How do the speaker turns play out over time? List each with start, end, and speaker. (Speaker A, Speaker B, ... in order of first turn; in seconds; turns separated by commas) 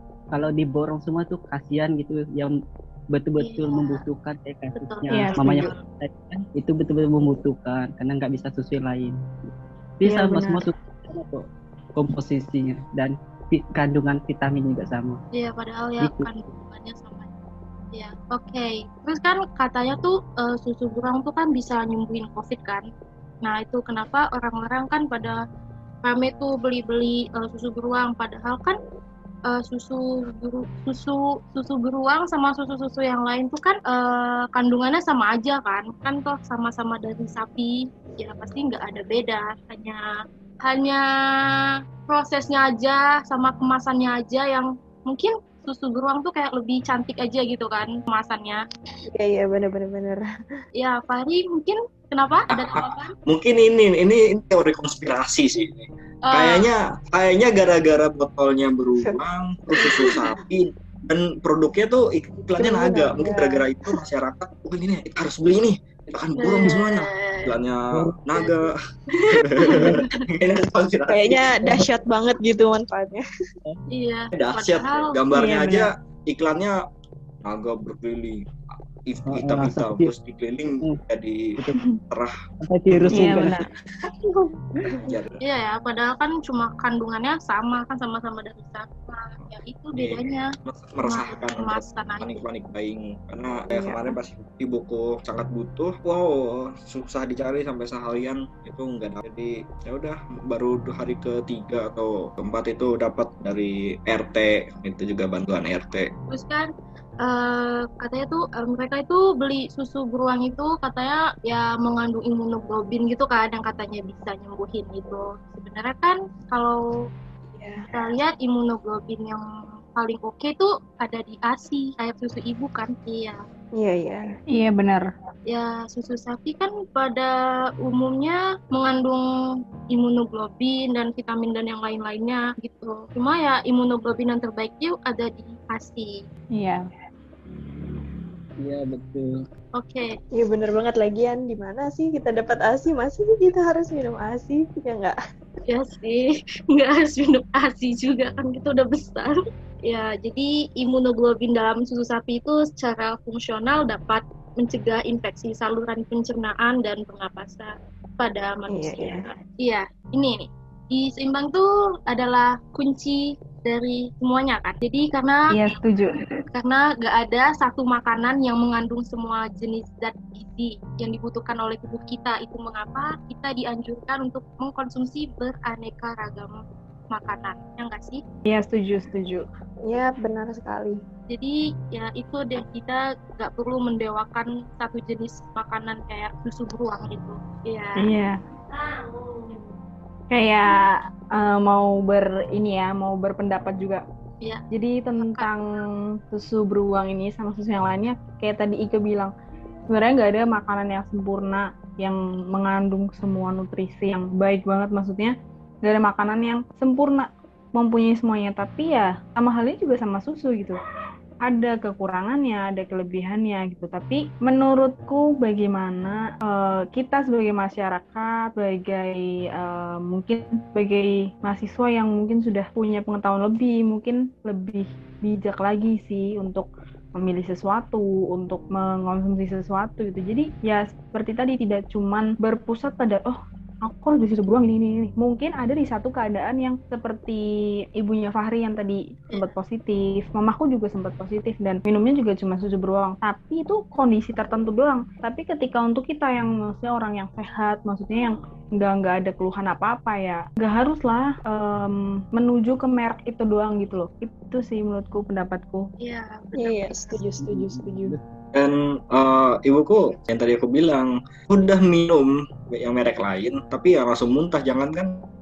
Speaker A: 0.3-2.6, Speaker A: 3.1-9.2, Speaker B: 3.4-4.0, Speaker B: 4.7-5.8, Speaker C: 5.1-5.7, Speaker A: 10.0-15.2, Speaker C: 10.0-10.7, Speaker B: 15.3-17.3, Speaker A: 16.0-16.3, Speaker B: 17.9-22.9, Speaker B: 23.4-25.4, Speaker B: 26.0-28.8, Speaker B: 29.5-40.0, Speaker B: 40.6-41.0, Speaker B: 42.1-48.6, Speaker D: 49.1-50.2, Speaker B: 50.8-53.1, Speaker E: 52.5-68.7, Speaker B: 56.3-56.7, Speaker D: 59.8-60.2, Speaker D: 62.6-63.7, Speaker B: 66.4-67.6, Speaker D: 69.4-69.8, Speaker E: 69.4-71.5, Speaker A: 69.8-70.0, Speaker D: 71.1-73.2, Speaker B: 73.9-75.2, Speaker E: 74.3-76.8, Speaker C: 75.3-75.9, Speaker E: 77.4-78.4, Speaker E: 79.0-81.5, Speaker A: 79.3-80.1, Speaker A: 82.6-83.6, Speaker E: 82.9-83.7, Speaker C: 83.1-83.7, Speaker E: 85.0-85.4, Speaker B: 85.4-90.5, Speaker E: 89.9-106.1, Speaker B: 91.0-92.4, Speaker D: 93.7-94.2, Speaker B: 106.3-106.7, Speaker B: 107.2-116.8, Speaker D: 117.5-117.9, Speaker B: 117.9-119.4, Speaker B: 120.0-123.4, Speaker D: 123.8-124.3, Speaker C: 124.5-125.1, Speaker B: 125.5-129.2, Speaker B: 129.9-136.2, Speaker C: 136.5-136.9, Speaker A: 138.6-139.4, Speaker B: 139.8-140.1, Speaker D: 140.3-145.2, Speaker B: 145.7-165.7, Speaker D: 158.7-159.2, Speaker C: 165.5-166.3, Speaker B: 166.5-178.2, Speaker C: 178.5-179.4, Speaker D: 179.8-181.0, Speaker B: 181.3-188.1, Speaker C: 188.0-188.4, Speaker C: 190.3-194.0, Speaker C: 194.7-199.3, Speaker B: 195.2-195.5, Speaker C: 199.9-210.8, Speaker C: 211.4-237.4, Speaker C: 238.0-255.9, Speaker B: 256.0-257.2, Speaker D: 256.6-258.1, Speaker A: 257.4-258.2, Speaker E: 258.5-265.1